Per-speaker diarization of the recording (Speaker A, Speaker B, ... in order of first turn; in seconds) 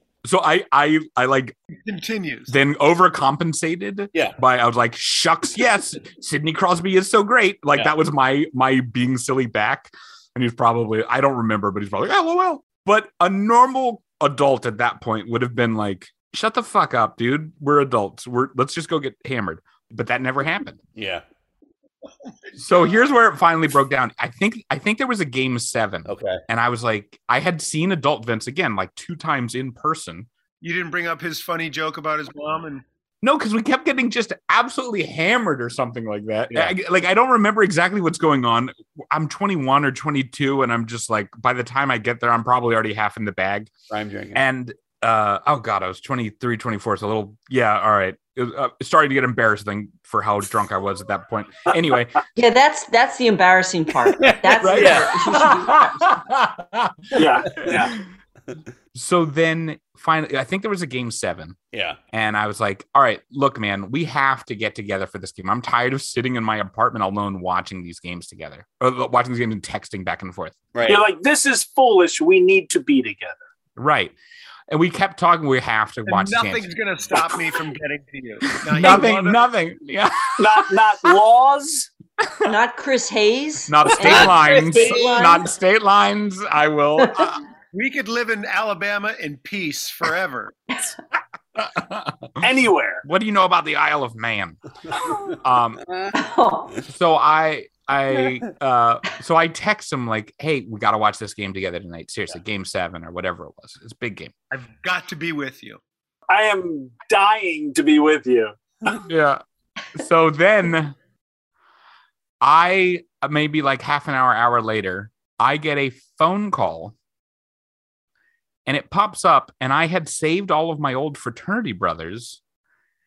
Speaker A: 0.2-1.6, 2.5-20.8, 22.6-30.3, 33.2-43.7, 44.3-52.2, 54.6-58.0, 58.9-61.6, 62.1-70.5, 73.8-74.1, 74.7-76.7, 78.6-80.7, 82.2-82.5, 83.7-87.4, 91.5-92.4, 93.0-95.8, 96.9-104.3, 108.9-109.4, 109.9-111.0, 112.4-116.9, 118.7-122.4
Speaker B: 1.8-2.5, 30.6-32.8, 76.1-79.5, 87.7-90.5, 104.5-105.8
Speaker C: 20.9-21.2, 26.1-26.4, 43.9-44.4, 54.1-55.1, 57.6-57.8, 61.7-62.0, 70.7-71.0, 84.0-85.0, 95.9-96.1
Speaker D: 52.3-56.1, 82.4-85.5, 87.0-87.3, 96.1-96.8
Speaker E: 57.1-58.0, 70.8-73.4, 80.4-81.9, 92.4-93.0, 106.3-108.5